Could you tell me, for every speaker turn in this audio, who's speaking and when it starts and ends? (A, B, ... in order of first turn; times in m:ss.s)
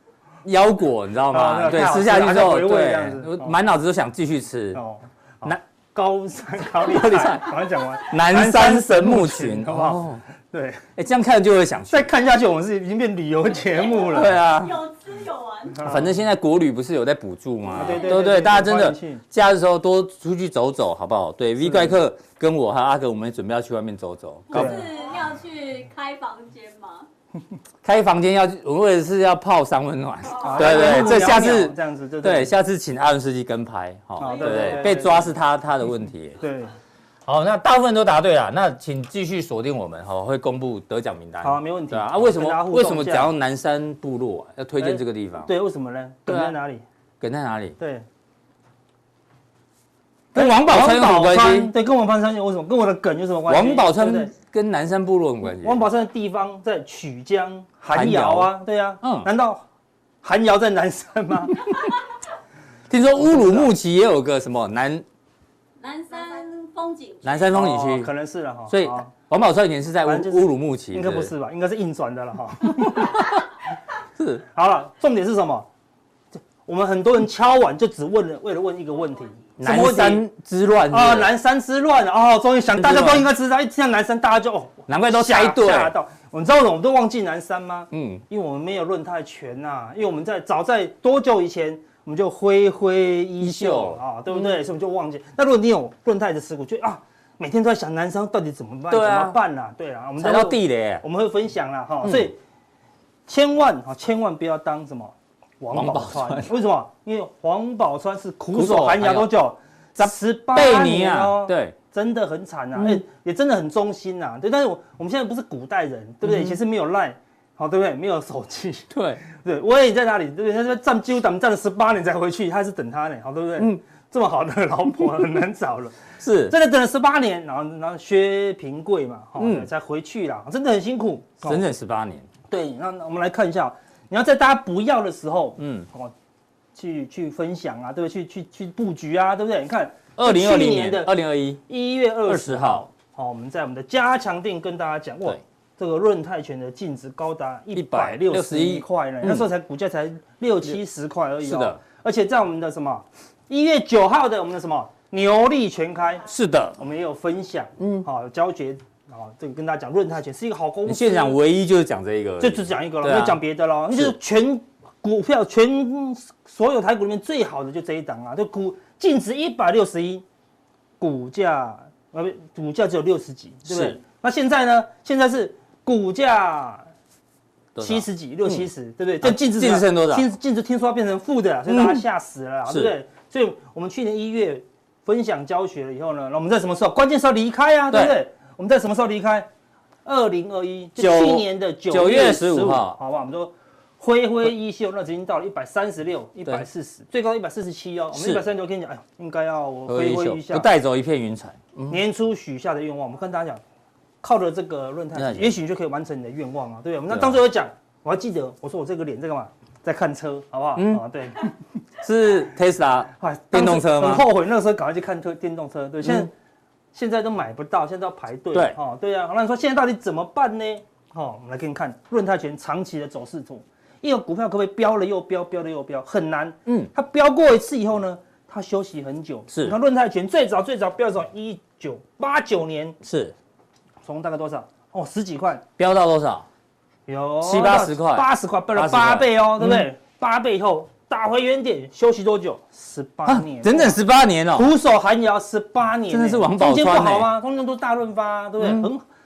0:00.4-0:04.8 A
0:01.3-0:03.6 B
0:04.7-0:10.8 B
0:06.8-0:10.2 A
0:11.0-0:12.1 A
0:11.9-0:14.4 B
0:13.7-0:16.0 C
0:14.1-0:14.8 A
0:15.8-0:24.9 A
0:17.7-0:19.2 B
0:17.8-0:18.2 C
0:21.6-0:22.0 B
0:24.5-0:27.1 C
0:24.5-0:24.8 B
0:27.8-0:36.4 A
0:30.4-0:32.5 B
0:30.5-0:31.1 C
0:34.2-0:35.3 B
0:34.2-0:35.0 C
0:36.4-0:36.7 B
0:37.2-0:45.5 A
0:41.4-0:43.3 B
0:44.8-0:46.8 B
0:46.3-0:46.5 A
0:47.2-0:47.8 A
0:47.8-0:48.0 B
0:50.3-0:51.7 A
0:50.3-0:54.3 B
0:53.5-0:55.8 A
0:55.6-0:59.6 B
0:57.9-0:59.3 A
1:00.2-1:01.7 B
1:02.9-1:05.0 A
1:03.2-1:03.7 B
1:05.8-1:07.5 C
1:07.2-1:08.1 A
1:07.5-1:09.1 B
1:08.7-1:11.3 A
1:10.0-1:13.3 B
1:12.9-1:13.2 A
1:14.2-1:14.4 A
1:14.5-1:15.7 B
1:16.6-1:20.2 B
1:19.6-1:21.3 A
1:20.9-1:42.4 B
1:22.7-1:23.3 A
1:24.9-1:25.9 A
1:27.9-1:28.2 A
1:33.4-1:34.6 A
1:38.9-1:39.4 A
1:40.2-1:41.0 A
1:43.3-2:11.6 B
1:45.7-1:46.5 A
1:48.5-1:49.3 A
1:50.0-1:51.8 A
1:52.7-1:53.0 A
1:56.2-1:56.6 A
1:58.9-1:59.2 A
2:06.2-2:06.5 A
2:09.4-2:09.7 A
2:11.4-2:12.3 A
2:12.5-2:16.1 B
2:15.6-2:15.9 A
2:16.7-2:21.1 B
2:20.2-2:21.6 A
2:21.7-2:36.3 B
2:22.2-2:22.9 A
2:27.7-2:29.5 A
2:31.4-2:31.8 A
2:36.2-2:36.8 A
2:36.8-2:41.4 B
2:37.8-2:38.0 A
2:40.8-2:43.4 A
2:42.4-2:50.2 B
2:51.0-2:56.9 B
2:53.7-2:54.0 A
2:57.7-2:58.6 A
2:57.8-3:09.5 B
2:59.2-3:00.2 A
3:01.7-3:02.0 A
3:02.7-3:02.9 A
3:07.9-3:08.2 A
3:10.0-3:20.7 B
3:11.0-3:13.0 A
3:18.1-3:18.4 A
3:19.9-3:22.0 A
3:21.9-3:23.6 B
3:24.2-3:31.5 B
3:25.1-3:25.6 A
3:27.1-3:27.4 A
3:30.7-3:31.0 A
3:32.0-3:34.3 A
3:33.2-3:36.3 B
3:36.0-3:36.3 A
3:36.9-3:53.0 B
3:49.5-3:49.8 A
3:53.0-3:53.3 A
3:54.0-3:55.6 B
3:55.8-3:56.4 A
3:57.1-4:04.0 B
3:57.4-3:59.8 A
4:03.2-4:04.7 A
4:04.5-4:09.0 B
4:06.1-4:07.3 A
4:08.6-4:08.9 A